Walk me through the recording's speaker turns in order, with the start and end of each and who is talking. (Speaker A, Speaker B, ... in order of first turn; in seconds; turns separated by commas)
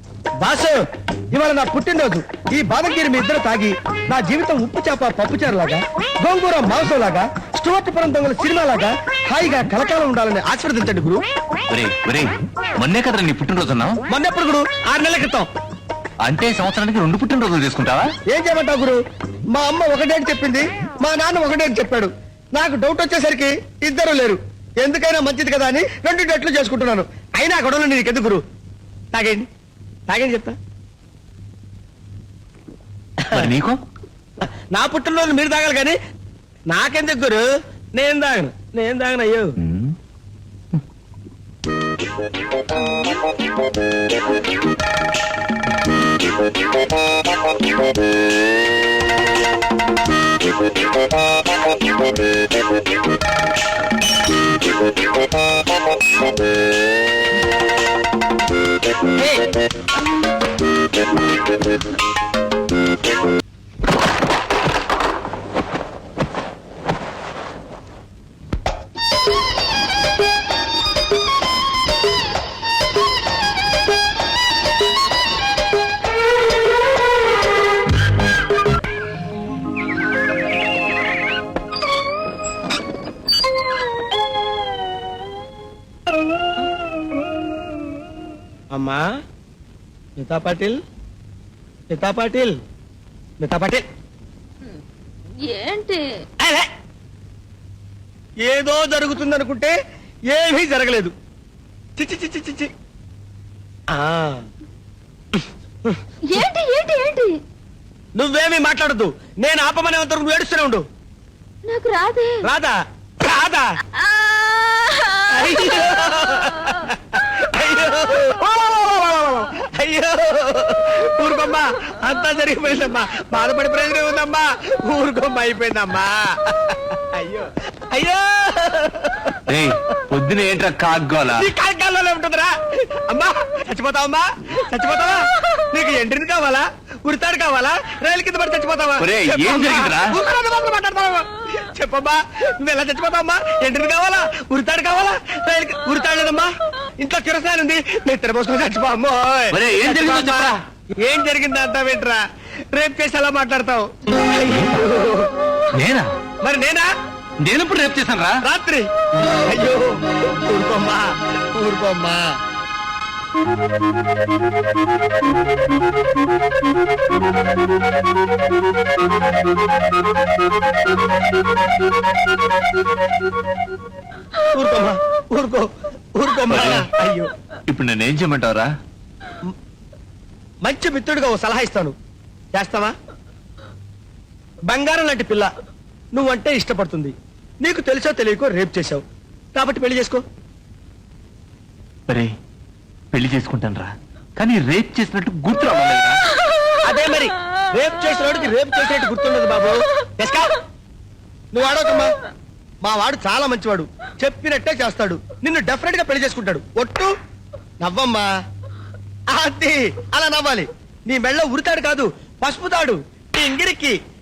Speaker A: 0.4-11.3, Speaker B: 11.7-14.0, Speaker A: 14.1-15.5, Speaker B: 16.2-18.1, Speaker A: 18.3-19.0, Speaker A: 19.5-28.4, Speaker A: 29.1-29.5, Speaker A: 30.1-30.6, Speaker A: 33.2-33.5, Speaker B: 33.3-33.8, Speaker A: 34.7-36.0, Speaker A: 36.7-39.5, Speaker B: 39.6-40.0, Speaker A: 59.2-59.5, Speaker A: 88.7-89.1, Speaker A: 90.2-90.8, Speaker A: 91.9-92.6, Speaker A: 93.4-93.8, Speaker C: 95.4-96.0, Speaker A: 96.4-96.7, Speaker A: 98.4-99.7, Speaker A: 100.3-101.1, Speaker A: 102.0-102.7, Speaker A: 103.9-104.4, Speaker A: 105.3-106.0, Speaker C: 106.3-107.3, Speaker A: 108.2-110.8, Speaker C: 111.7-112.3, Speaker A: 112.4-113.7, Speaker A: 115.3-129.4, Speaker B: 129.5-131.5, Speaker A: 131.3-132.5, Speaker A: 133.1-152.2, Speaker B: 139.0-140.2, Speaker B: 149.5-150.6, Speaker A: 152.7-155.3, Speaker B: 155.7-156.1, Speaker A: 156.4-156.9, Speaker B: 157.4-158.4, Speaker A: 158.4-158.9, Speaker A: 159.5-162.2, Speaker A: 174.5-177.3, Speaker B: 176.5-176.9, Speaker B: 177.7-178.7, Speaker A: 180.6-181.9, Speaker A: 182.6-182.9, Speaker A: 184.7-185.5, Speaker A: 186.2-189.0, Speaker A: 189.6-190.2, Speaker B: 193.1-196.2, Speaker A: 196.8-200.6, Speaker A: 201.5-202.1, Speaker A: 202.8-207.1, Speaker A: 207.8-208.3, Speaker A: 209.3-214.0